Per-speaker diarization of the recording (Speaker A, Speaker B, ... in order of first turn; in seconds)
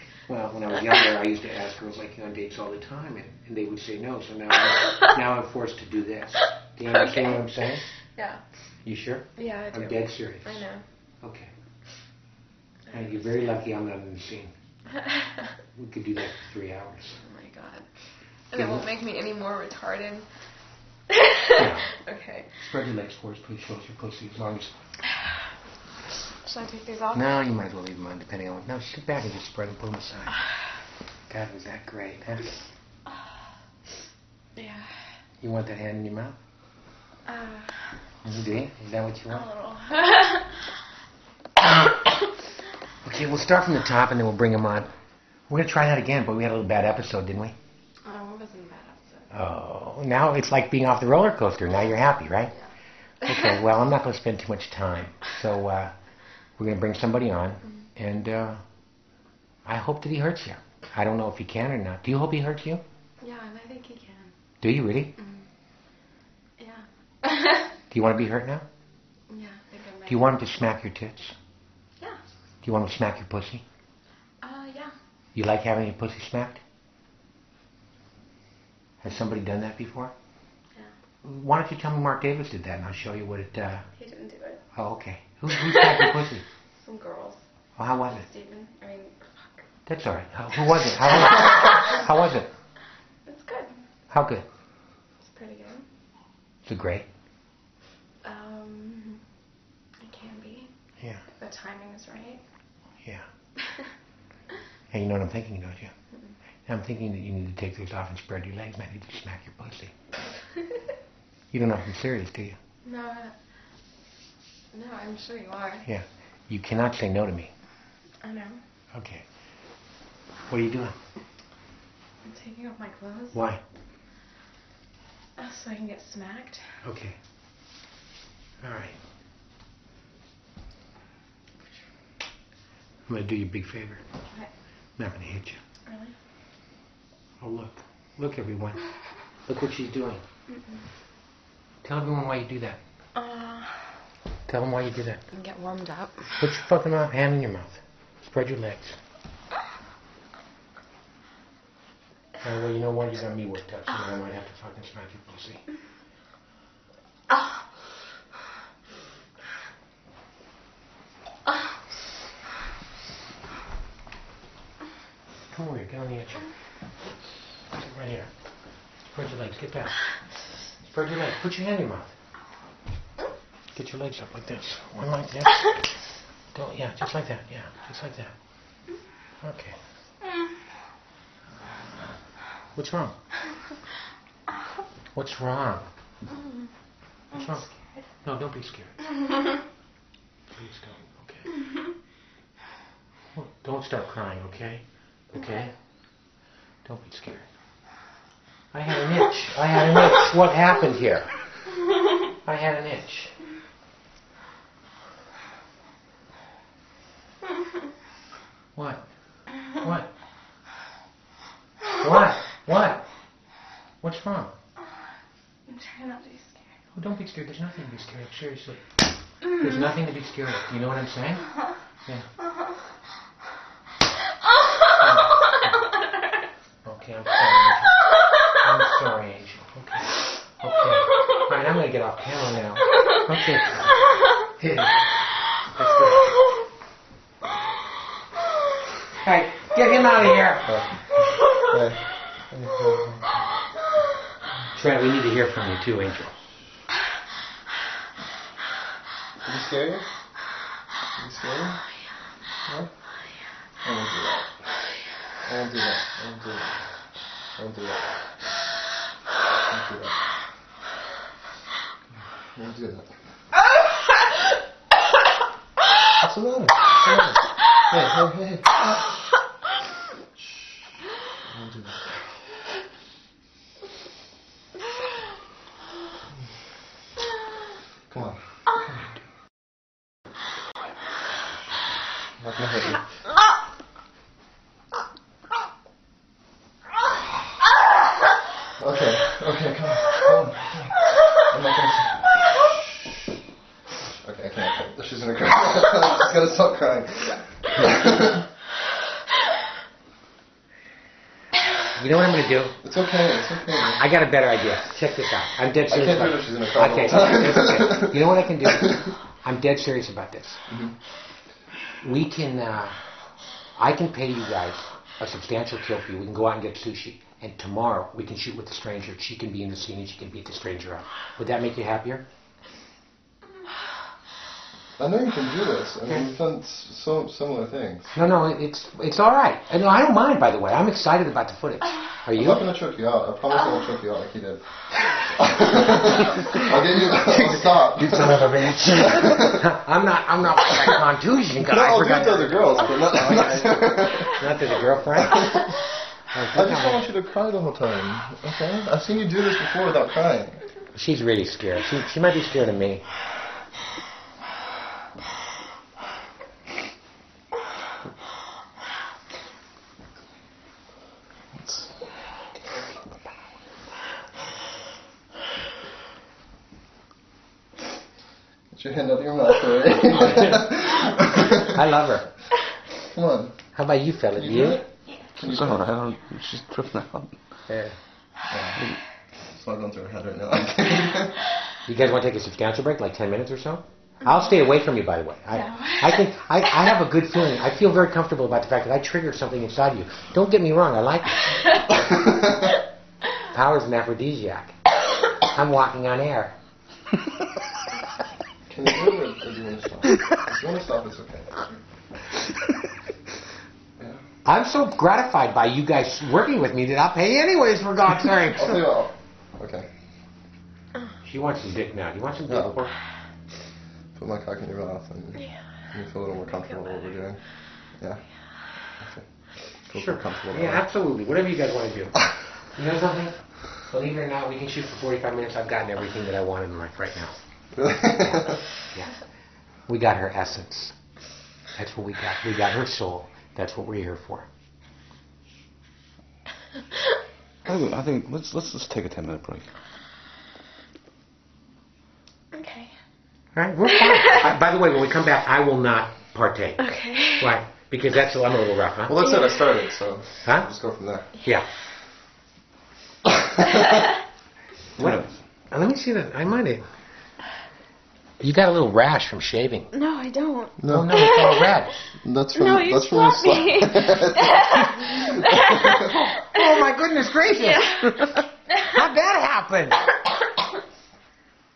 Speaker A: 0.3-7.8, 8.8-10.6, 11.2-11.5, 12.9-14.5, 15.7-17.2, 18.5-18.8, 21.5-21.9, 22.6-24.7, 27.1-30.4, 31.3-32.5, 35.4-36.4, 38.2-39.4, 41.6-42.1, 43.0-44.9, 45.5-47.5, 49.3-52.5, 53.2-55.9, 56.6-58.6, 59.6-62.8, 64.6-65.1, 67.9-68.6, 70.1-71.3, 72.6-73.6, 75.3-76.6, 79.0-80.1, 81.2-83.8, 84.7-86.4, 87.8-88.2, 89.8-92.5, 94.1-94.5, 96.6-97.1, 101.0-101.2, 104.9-105.9, 106.7-109.9, 111.5-112.6, 115.8-117.5, 118.9-119.2, 120.5-120.9, 123.3-123.6, 126.8-127.2, 128.6-129.0, 133.1-134.0, 135.0-135.6, 137.4-138.8, 139.4-140.2, 141.8-142.8, 144.5-145.2, 146.4-149.0, 152.4-155.6, 165.5-166.5, 167.7-168.3, 169.1-170.1, 170.8-172.1, 173.7-175.8, 176.5-178.3, 179.4-179.8, 182.7-183.1, 185.1-185.9, 187.3-187.6, 188.2-189.1, 190.5-191.6, 193.3-195.7, 196.8-197.4, 198.7-201.4, 202.3-203.4, 208.7-209.0, 209.8-210.1, 212.0-213.0, 214.0-214.5, 216.9-218.8, 219.4-221.5, 225.0-225.8, 226.8-236.3, 239.2-241.2, 242.5-243.2, 244.7-246.3, 301.9-302.8, 303.9-310.6, 312.0-313.0, 313.8-322.2, 328.1-332.7, 336.5-342.9, 344.2-345.8, 346.3-347.0, 350.9-353.0, 370.4-372.3, 373.7-374.8, 377.7-377.9, 381.9-392.2, 393.4-394.7, 395.4-396.5, 404.4-408.9, 411.2-412.9, 419.9-427.4, 428.2-429.1, 429.9-430.9, 431.7-434.5, 443.5-449.2, 451.4-451.7, 455.0-456.8, 458.4-459.9, 460.9-462.0, 466.1-470.1
Speaker B: 0.7-1.0, 6.8-8.4, 9.3-10.8, 12.9-13.5, 15.0-15.5, 17.2-17.8, 18.5-20.2, 21.1-22.6, 26.4-27.5, 34.5-34.9, 37.3-37.9, 39.3-40.6, 48.0-49.3, 53.3-53.6, 63.2-64.3, 65.2-65.5, 66.6-67.8, 69.3-70.5, 74.4-74.9, 83.9-84.6, 85.5-89.7, 93.2-93.8, 95.2-95.8, 98.2-99.2, 100.0-100.7, 101.2-102.4, 103.6-103.9, 112.8-113.3, 114.7-115.9, 118.2-118.6, 122.2-123.4, 125.4-126.7, 135.8-136.1, 143.2-143.8, 145.3-146.4, 187.3-187.7, 215.7-216.8, 385.5-386.4, 442.5-442.9, 443.9-444.4, 446.8-447.5, 459.9-461.6, 462.5-466.6, 467.7-468.3
Speaker C: 240.6-242.0, 249.4-250.0, 251.2-251.8, 253.8-254.5, 255.4-256.8, 257.6-258.1, 259.6-260.1, 262.5-263.1, 266.2-268.9, 271.5-272.1, 278.1-279.1, 282.4-283.0, 288.8-292.3, 294.2-298.4, 302.8-304.0, 305.9-308.2, 310.7-310.9, 325.0-328.1, 332.4-334.6, 335.2-338.3, 339.1-339.6, 341.6-344.5, 345.2-345.5, 346.5-350.7, 368.7-371.8, 373.1-373.6, 375.4-375.9, 378.5-378.8, 379.5-381.4, 392.0-392.7, 398.7-401.5, 408.6-409.9, 412.5-412.8, 414.1-417.4, 419.0-419.2, 419.9-420.8, 427.7-428.6, 449.1-451.3, 453.2-453.9, 460.8-461.3, 462.2-466.1
Speaker D: 342.9-343.9, 375.4-377.3, 437.7-439.6